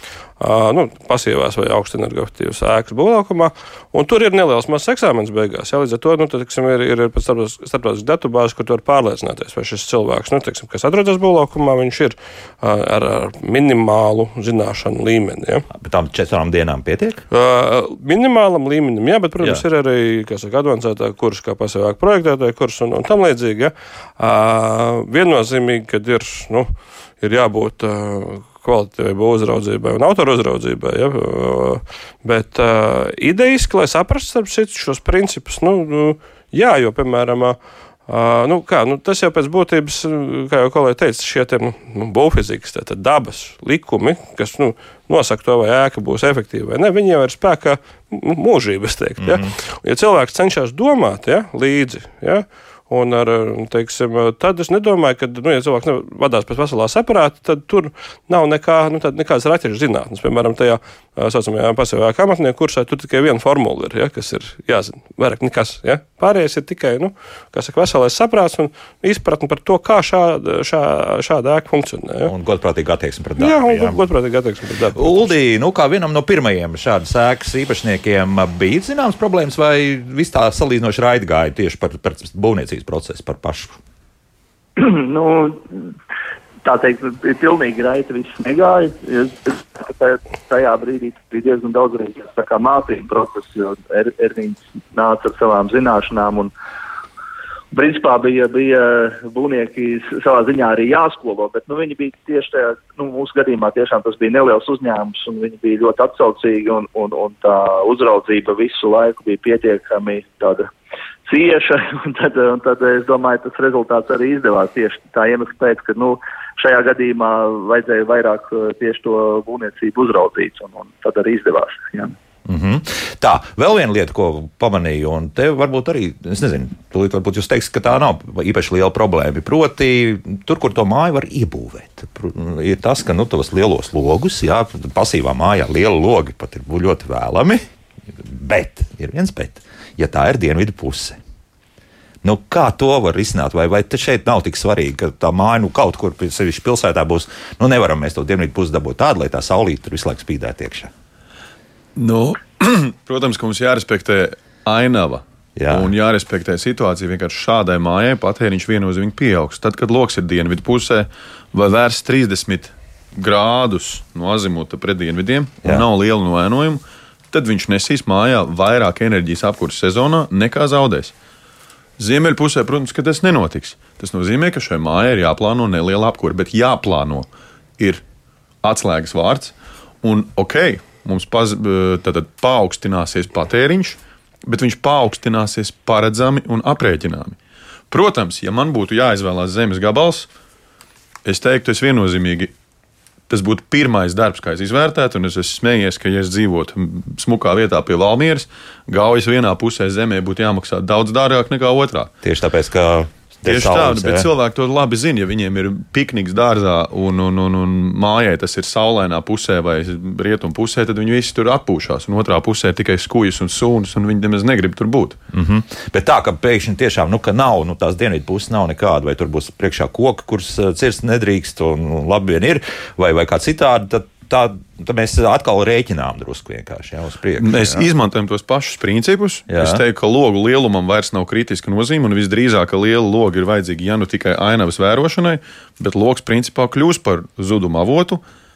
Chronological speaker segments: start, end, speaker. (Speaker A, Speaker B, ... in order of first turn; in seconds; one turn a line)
Speaker A: 0.4-15.7
Speaker B: 15.7-17.2
Speaker A: 17.3-72.3
Speaker B: 49.2-49.5
Speaker B: 72.2-74.0
Speaker A: 73.4-75.3
Speaker B: 74.9-83.8
Speaker C: 84.8-85.9
Speaker C: 86.6-96.5
Speaker C: 97.7-110.7
Speaker C: 111.2-122.1
Speaker B: 122.5-137.6
Speaker B: 138.2-141.2
Speaker B: 142.2-150.9
Speaker D: 151.9-171.1
Speaker B: 155.6-155.9
Speaker D: 172.0-178.0
Speaker D: 178.6-187.4
Speaker D: 187.9-190.3
Speaker D: 191.2-192.5
Speaker D: 193.3-202.1
Speaker B: 202.2-204.3
Speaker D: 203.4-215.2
Speaker B: 215.3-227.9
Speaker D: 227.4-238.2
Speaker B: 229.5-229.8